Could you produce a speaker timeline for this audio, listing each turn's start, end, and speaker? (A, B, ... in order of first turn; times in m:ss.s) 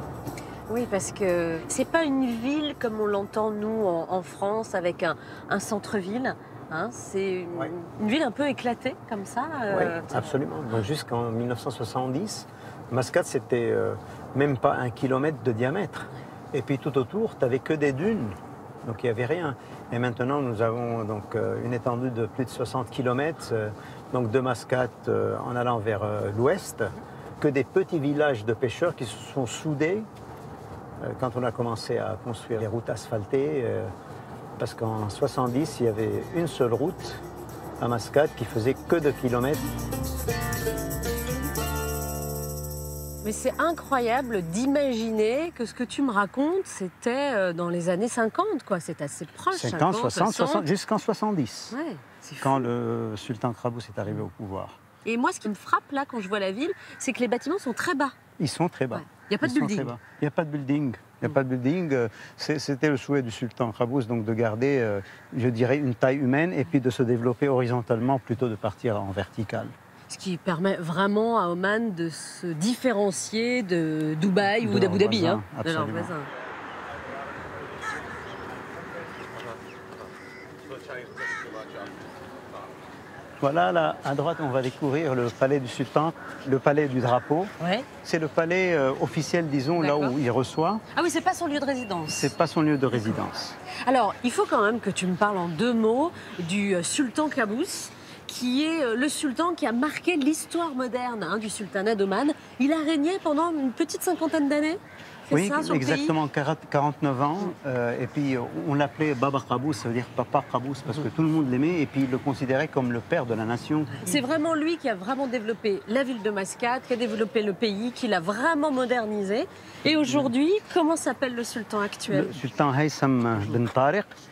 0:00.7-0:10.1 A
0:09.7-0:30.1 B
0:31.0-0:33.9 B
0:34.6-0:37.2 B
0:37.8-0:39.7 B
0:43.2-0:50.6 A
0:49.5-0:51.8 B
0:51.7-0:52.6 A
0:52.4-0:54.8 B
0:55.0-0:58.1 A
0:58.4-1:09.7 B
0:58.9-0:59.9 A
1:10.1-1:16.3 A
1:14.6-1:16.1 B
1:23.4-1:27.5 B
1:27.6-1:27.9 A
1:28.0-1:30.8 B
1:29.8-1:30.1 A
1:31.0-1:32.3 A
1:32.1-1:33.6 B
1:33.8-1:46.1 A
1:45.3-1:54.0 B
1:54.0-2:02.4 A
2:02.1-2:04.1 B